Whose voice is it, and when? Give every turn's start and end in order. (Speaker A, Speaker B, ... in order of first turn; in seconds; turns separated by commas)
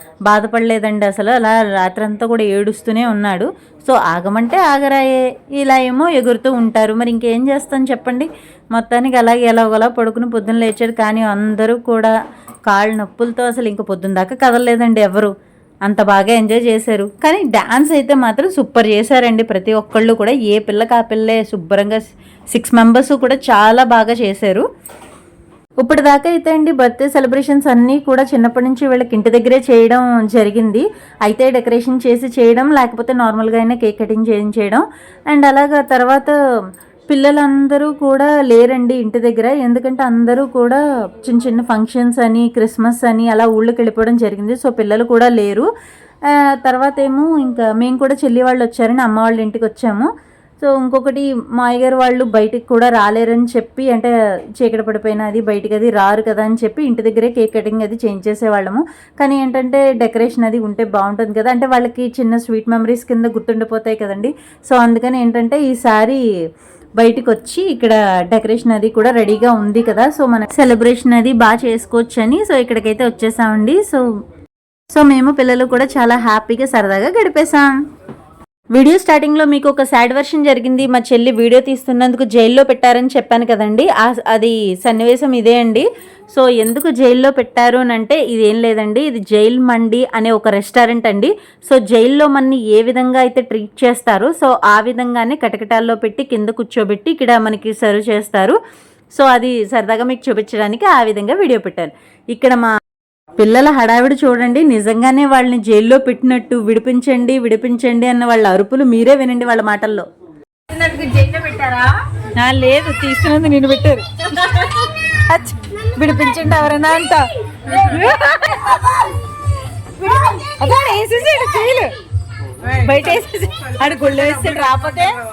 Speaker A: 0.3-12.1, Speaker A: 12.7-15.3, Speaker A: 15.9-24.7, Speaker A: 25.8-36.4, Speaker A: 37.1-45.7, Speaker A: 46.3-66.2, Speaker A: 67.0-74.0, Speaker A: 74.9-77.7, Speaker A: 78.7-98.6, Speaker A: 99.1-102.7, Speaker A: 103.4-110.1, Speaker B: 110.7-112.0, Speaker A: 112.4-114.8, Speaker A: 115.3-118.8, Speaker B: 117.7-118.0, Speaker A: 120.0-121.9, Speaker B: 120.1-121.7, Speaker B: 122.7-123.2, Speaker A: 122.8-125.1, Speaker B: 123.8-124.8